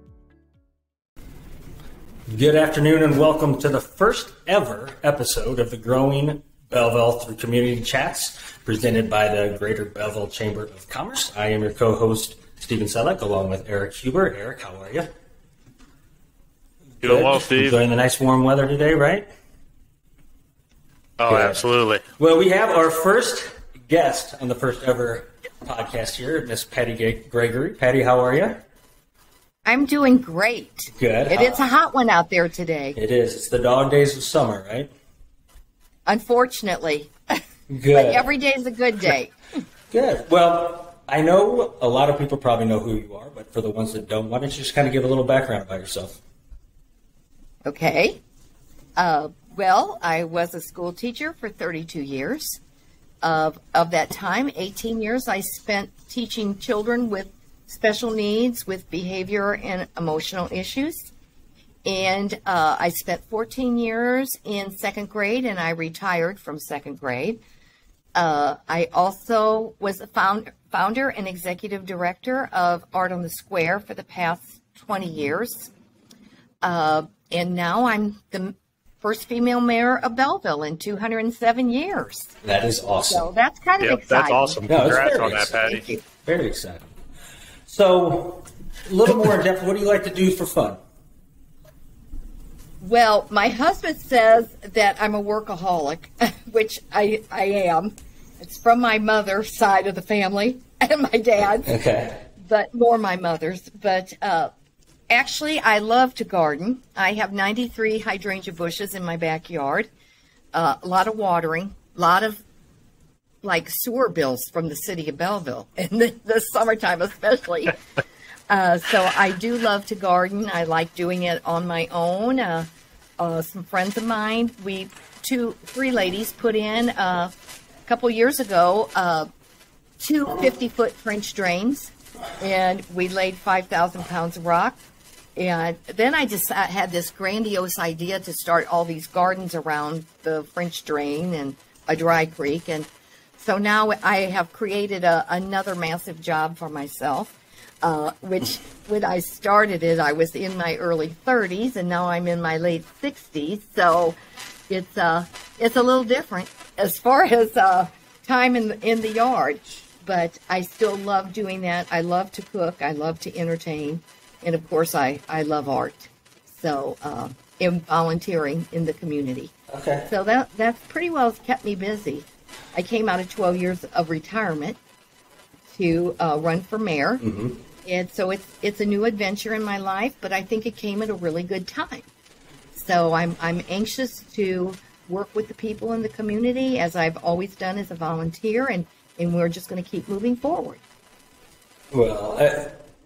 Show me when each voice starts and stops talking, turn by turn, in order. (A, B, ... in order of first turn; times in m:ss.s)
0:02.3-0:15.1 A
0:17.0-0:19.2 A
0:17.0-0:17.8 B
0:21.2-0:22.0 B
0:21.3-0:21.6 A
0:22.2-0:28.6 A
0:29.6-0:33.0 C
0:31.0-0:31.6 A
0:33.0-0:34.9 A
0:36.0-0:39.3 C
0:37.7-0:38.3 A
0:39.9-0:46.2 A
0:47.6-0:48.2 C
0:49.0-0:52.6 C
0:53.2-1:01.1 C
1:01.8-1:07.4 C
1:08.2-1:15.7 C
1:16.6-1:22.3 C
1:22.4-1:23.2 A
1:23.1-1:24.9 C
1:23.8-1:25.8 B
1:24.7-1:25.6 A
1:25.6-1:26.0 C
1:26.2-1:26.9 A
1:27.7-1:30.8 A
1:32.8-1:41.8 C
1:41.6-1:42.2 A
1:42.4-1:44.5 C
1:45.1-1:49.9 C
1:50.5-1:52.4 C
1:53.4-1:57.8 C
1:58.5-2:07.3 C
2:07.8-2:09.3 C
2:10.0-2:14.8 C
2:15.4-2:34.2 C
2:34.7-2:49.5 C
2:49.7-2:50.1 A
2:50.1-2:54.8 C
2:55.7-2:57.2 C
2:57.2-2:57.6 A
2:57.8-3:02.1 C
3:02.7-3:10.8 C
3:11.9-3:12.7 A